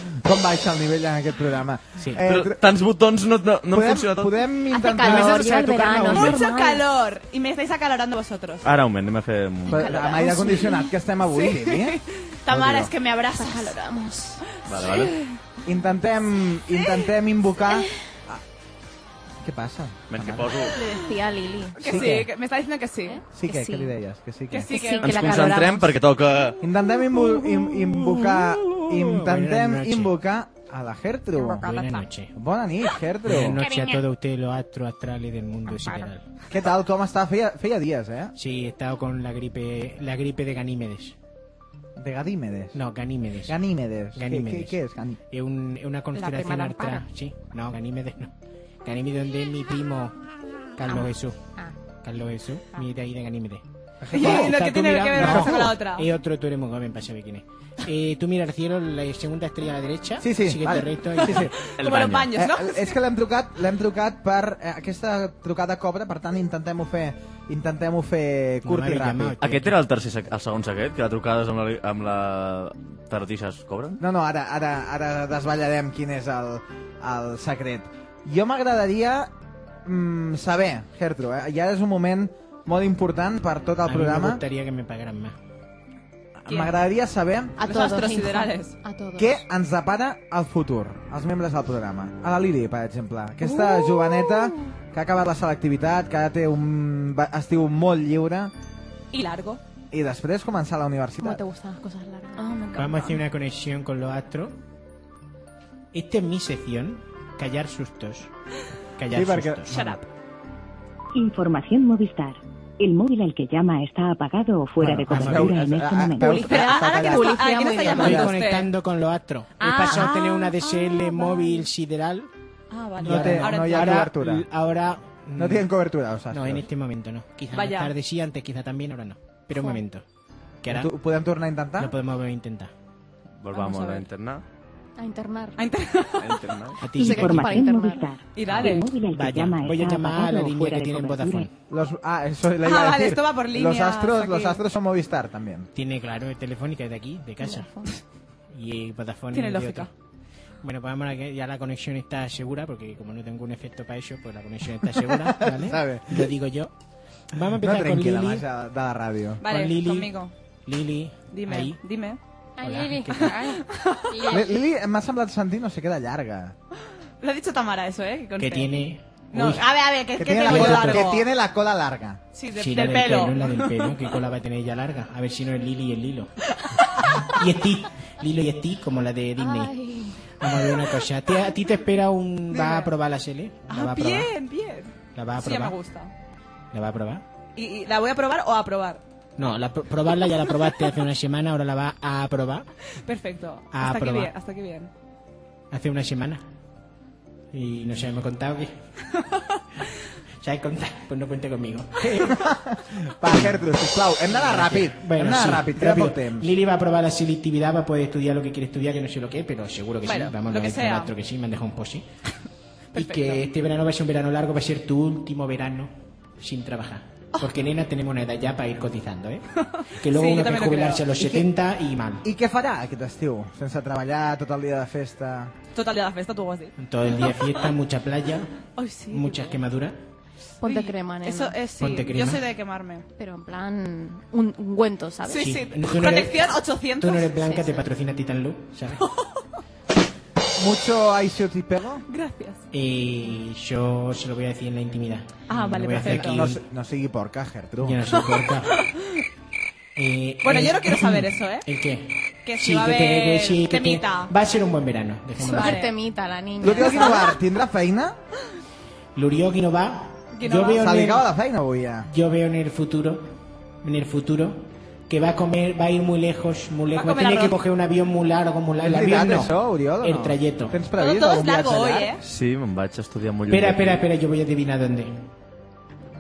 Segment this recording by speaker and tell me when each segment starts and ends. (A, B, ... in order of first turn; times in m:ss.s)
0:00.2-0:02.6 A
0:02.2-0:04.4 B
0:03.7-0:06.2 A
0:04.7-0:06.8 C
0:05.3-0:06.0 D
0:06.1-0:08.7 E
0:08.6-0:10.0 B
0:09.7-0:12.9 A
0:09.7-0:10.9 C
0:11.3-0:13.8 E
0:13.3-0:14.4 C
0:14.7-0:15.2 B
0:14.9-0:15.2 E
0:15.6-0:18.4 A
0:19.4-0:20.6 A
0:20.1-0:20.8 B
0:20.7-0:22.2 C
0:21.8-0:23.2 E
0:21.8-0:22.3 A
0:23.1-0:23.9 C
0:23.4-0:24.7 A
0:24.5-0:25.8 E
0:24.7-0:25.9 C
0:25.0-0:26.6 B
0:26.6-0:31.8 A
0:28.1-0:30.2 D
0:31.4-0:32.0 C
0:31.6-0:32.3 D
0:32.4-0:33.6 A
0:33.2-0:36.2 D
0:33.7-0:34.0 C
0:36.5-0:38.3 A
0:38.4-0:41.2 D
0:42.0-0:42.8 A
0:42.7-0:43.6 D
0:43.5-0:45.2 A
0:44.2-0:44.8 D
0:45.3-0:48.3 D
0:46.2-0:47.0 C
0:48.8-0:50.2 D
0:50.8-0:51.4 D
0:50.9-0:51.7 C
0:52.0-1:01.6 D
0:54.0-0:54.6 A
0:54.1-0:56.1 E
0:55.2-0:55.8 A
1:00.2-1:01.6 A
1:01.3-1:03.0 E
1:01.8-1:02.3 B
1:02.3-1:09.4 A
1:08.6-1:09.8 D
1:09.4-1:14.0 B
1:14.0-1:19.3 A
1:19.8-1:24.4 A
1:23.8-1:25.4 D
1:26.4-1:27.6 A
1:26.5-1:26.8 E
1:27.6-1:29.4 C
1:27.6-1:28.8 E
1:29.2-1:38.5 A
1:33.6-1:34.5 C
1:39.1-1:39.6 E
1:39.9-1:41.4 A
1:41.2-1:43.2 C
1:42.8-1:44.6 D
1:45.9-1:48.3 D
1:49.0-1:50.0 D
1:49.1-1:49.8 A
1:49.7-1:50.0 E
1:51.1-1:56.5 F
1:54.8-1:58.3 A
1:55.1-1:55.7 D
1:56.2-1:58.7 E
1:56.8-1:58.2 C
1:57.9-2:02.3 D
1:59.6-2:01.1 E
2:00.9-2:01.6 C
2:02.7-2:04.0 E
2:03.0-2:04.5 A
2:03.0-2:05.7 D
2:05.4-2:06.7 A
2:06.3-2:10.0 D
2:07.5-2:07.9 E
2:10.6-2:10.9 D
2:10.7-2:11.9 A
2:11.8-2:12.7 D
2:13.4-2:14.4 B
2:13.5-2:14.1 E
2:15.0-2:15.6 C
2:15.6-2:16.4 E
2:16.2-2:16.8 B
2:16.8-2:17.6 D
2:16.9-2:18.1 C
2:17.0-2:21.5 F
2:18.4-2:18.9 E
2:18.6-2:21.5 D
2:21.7-2:25.7 A
2:22.6-2:24.6 E
2:25.8-2:27.7 D
2:27.5-2:27.9 C
2:28.5-2:29.9 D
2:29.3-2:29.9 E
2:30.6-2:36.7 D
2:35.0-2:36.3 A
2:37.3-2:38.4 D
2:37.6-2:39.4 A
2:39.4-2:40.3 E
2:39.4-2:40.1 D
2:40.7-2:41.8 D
2:41.3-2:42.2 E
2:42.6-2:44.5 C
2:42.6-2:43.4 D
2:43.2-2:44.4 E
2:44.3-2:46.6 A
2:47.2-2:48.7 E
2:48.4-2:49.7 D
2:49.3-2:51.3 E
2:50.2-2:52.2 A
2:50.4-2:51.1 D
2:52.4-2:54.0 E
2:52.6-2:56.3 D
2:57.3-2:59.8 D
2:59.4-3:00.2 C
3:00.4-3:04.3 D
3:02.5-3:02.9 E
3:03.7-3:06.1 E
3:05.2-3:05.8 D
3:06.7-3:07.2 D
3:07.6-3:09.0 E
3:09.4-3:12.7 D
3:13.1-3:14.9 E
3:13.7-3:14.3 D
3:15.7-3:16.4 D
3:17.5-3:18.8 D
3:20.4-3:22.4 D
3:22.1-3:26.5 A
3:23.3-3:23.6 D
3:24.3-3:32.1 D
3:30.1-3:31.1 E
3:32.9-3:33.5 E
3:33.0-3:39.4 D
3:39.6-3:41.1 E
3:40.0-3:42.3 D
3:41.2-3:41.5 A
3:42.2-3:45.5 A
3:45.7-3:47.5 E
3:46.8-3:48.6 D
3:48.8-3:49.5 E
3:49.1-3:50.0 D
3:50.6-3:51.6 C
3:50.6-3:53.0 E
3:51.8-3:52.4 D
3:53.2-3:55.6 C
3:55.3-3:57.7 E
3:55.4-3:59.0 D
4:00.6-4:02.0 A
4:02.1-4:02.6 E
4:02.7-4:06.6 D
4:05.5-4:06.5 E
4:06.0-4:08.0 A
4:07.8-4:08.8 D
4:08.3-4:09.0 E
4:10.0-4:15.9 D
4:10.4-4:11.7 E
4:12.5-4:14.3 E
4:15.4-4:17.3 C
4:15.4-4:15.9 E
4:16.6-4:18.2 A
4:16.7-4:17.3 E
4:19.2-4:21.2 D
4:20.4-4:20.9 E
4:20.8-4:22.1 A
4:22.1-4:23.3 D
4:23.8-4:30.8 D
4:27.0-4:27.6 E
4:28.8-4:32.1 A
4:31.0-4:32.2 E
4:32.2-4:34.0 B
4:33.5-4:35.2 D